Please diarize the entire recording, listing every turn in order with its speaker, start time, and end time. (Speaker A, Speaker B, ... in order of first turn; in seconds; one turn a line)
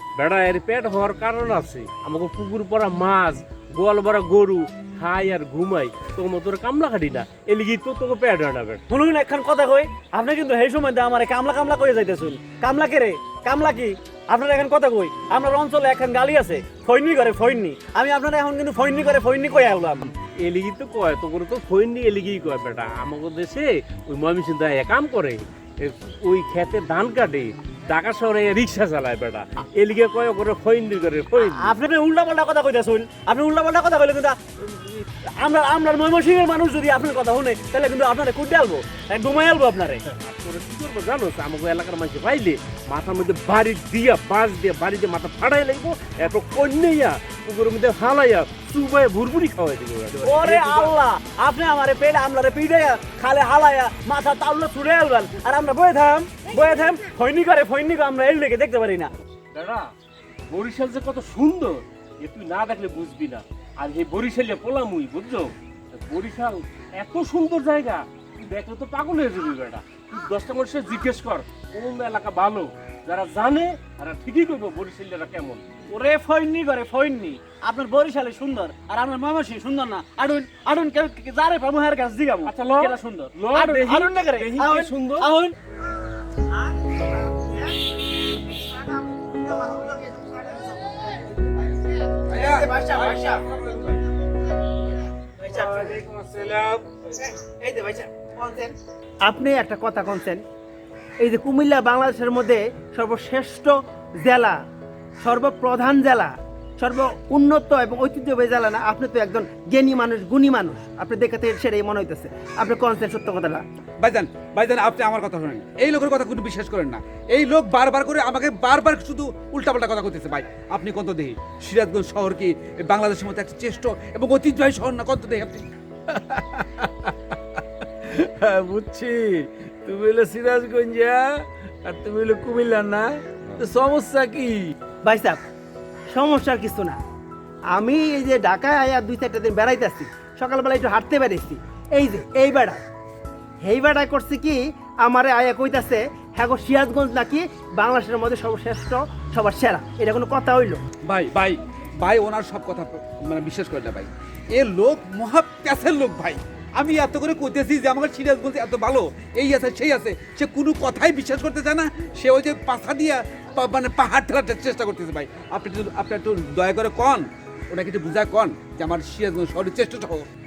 Speaker A: 0.1-8.8
Speaker B: 8.9-20.1
Speaker A: 20.4-31.8
Speaker B: 31.4-40.0
Speaker A: 40.1-50.9
Speaker B: 50.2-59.1
Speaker A: 59.5-59.9
Speaker A: 60.5-75.6
Speaker B: 75.9-85.5
Speaker A: 82.5-85.3
Speaker C: 86.5-93.4
Speaker D: 92.3-94.0
Speaker C: 95.4-96.0
Speaker E: 96.2-96.8
Speaker C: 97.1-100.4
Speaker C: 101.2-104.6
Speaker C: 105.2-113.6
Speaker D: 114.0-125.6
Speaker E: 126.2-127.1
Speaker E: 128.0-134.7
Speaker C: 135.0-135.4
Speaker C: 136.1-137.0
Speaker C: 137.7-142.8
Speaker C: 143.6-150.8
Speaker D: 151.1-170.2